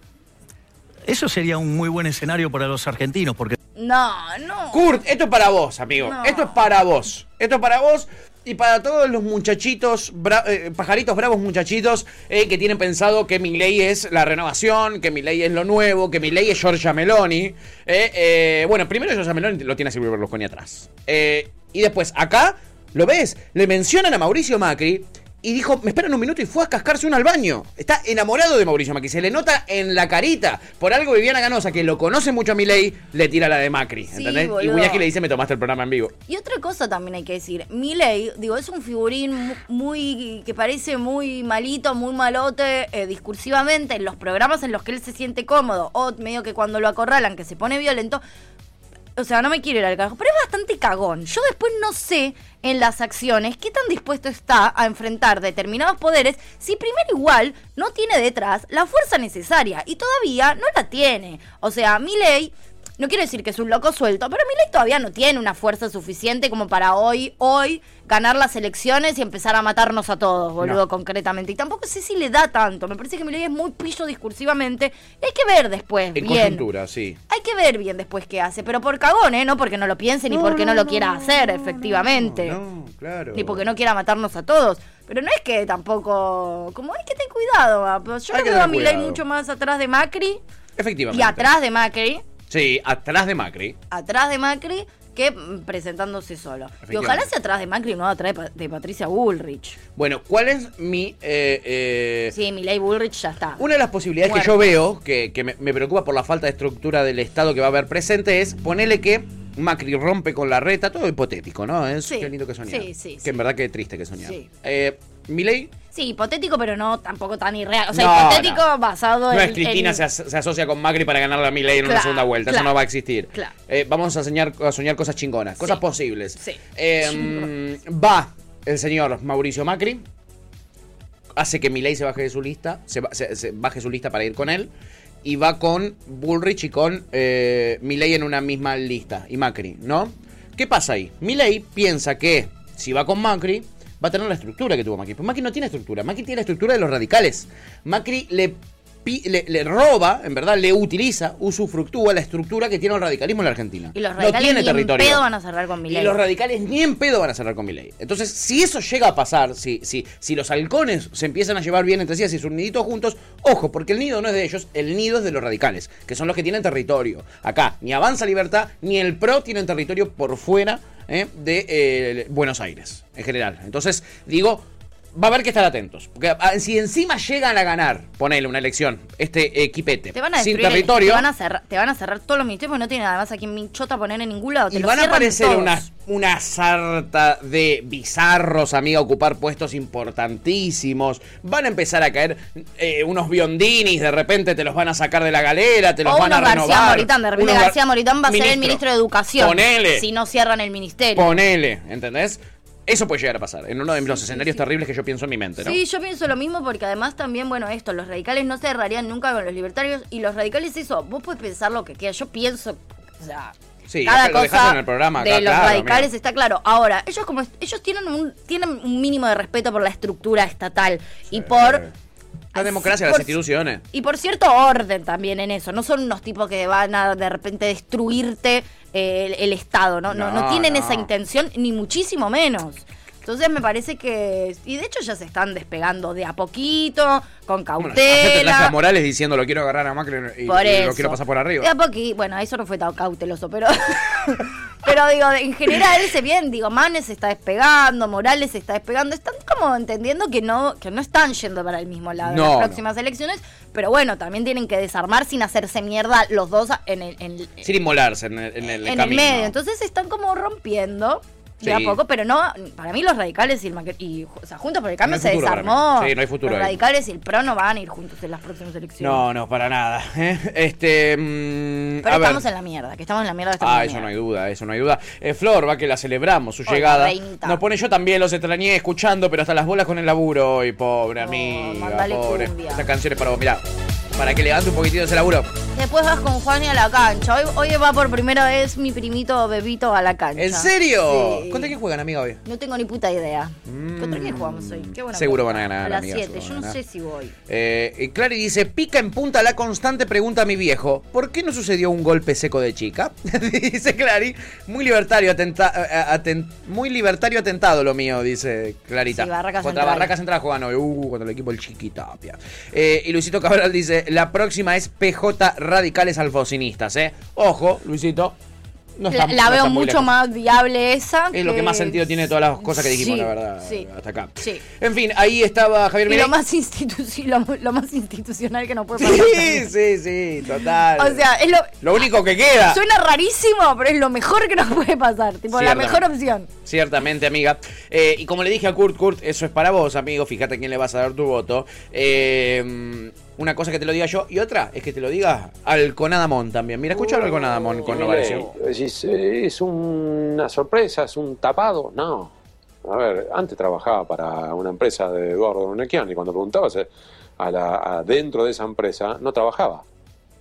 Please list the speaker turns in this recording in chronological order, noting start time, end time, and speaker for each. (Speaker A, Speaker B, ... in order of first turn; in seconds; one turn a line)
Speaker A: 1.1-3.6
Speaker B: 3.8-4.8
Speaker C: 4.7-36.1
Speaker B: 6.0-6.6
Speaker B: 34.1-35.0
Speaker B: 36.3-48.2
Speaker B: 49.2-76.7
Speaker C: 76.2-77.2
Speaker B: 77.3-82.6
Speaker C: 80.3-83.7
Speaker B: 83.3-90.4
Speaker C: 88.3-89.2
Speaker C: 90.8-91.5
Speaker B: 91.1-92.2
Speaker C: 92.5-93.8
Speaker B: 93.9-99.8
Speaker C: 96.9-97.3
Speaker C: 100.0-102.3
Speaker B: 102.3-103.6
Speaker C: 103.6-115.7
Speaker B: 104.2-104.8
Speaker B: 112.1-113.3
Speaker B: 114.2-114.5
Speaker B: 115.9-120.0
Speaker C: 117.9-118.7
Speaker C: 119.3-130.0
Speaker B: 121.8-122.8
Speaker B: 126.4-127.5
Speaker C: 131.4-134.7
Speaker C: 135.2-155.2
Speaker B: 153.9-156.2
Speaker C: 155.9-181.3
Speaker B: 180.1-185.9
Speaker C: 184.7-198.8
Speaker B: 196.1-201.3
Speaker C: 199.4-200.1
Speaker C: 201.2-205.8
Speaker B: 204.1-204.6
Speaker B: 205.6-213.5
Speaker C: 213.9-216.1
Speaker B: 214.1-221.8
Speaker C: 221.3-221.9
Speaker B: 222.6-223.3
Speaker C: 222.6-223.8
Speaker B: 223.9-238.8
Speaker C: 230.1-231.1
Speaker C: 237.8-241.7
Speaker B: 240.5-257.7
Speaker C: 252.2-252.8
Speaker C: 257.6-259.5
Speaker B: 258.6-269.2
Speaker C: 261.6-262.0
Speaker C: 265.0-266.8
Speaker C: 269.0-272.4
Speaker B: 272.0-274.1
Speaker C: 273.6-283.6
Speaker B: 276.7-277.6
Speaker B: 281.2-282.9
Speaker C: 284.2-285.5
Speaker B: 285.7-291.7
Speaker C: 290.4-292.4
Speaker B: 292.4-297.4
Speaker C: 293.7-296.8
Speaker C: 297.5-318.4
Speaker B: 309.1-310.1
Speaker C: 319.0-320.1
Speaker B: 319.1-323.9
Speaker C: 321.3-326.3
Speaker B: 326.1-329.7
Speaker C: 329.0-331.2
Speaker B: 331.0-332.0
Speaker C: 331.8-332.8
Speaker B: 332.7-336.5
Speaker C: 335.5-336.0
Speaker C: 336.6-348.5
Speaker D: 347.1-352.3
Speaker D: 352.9-356.9
Speaker D: 357.4-359.8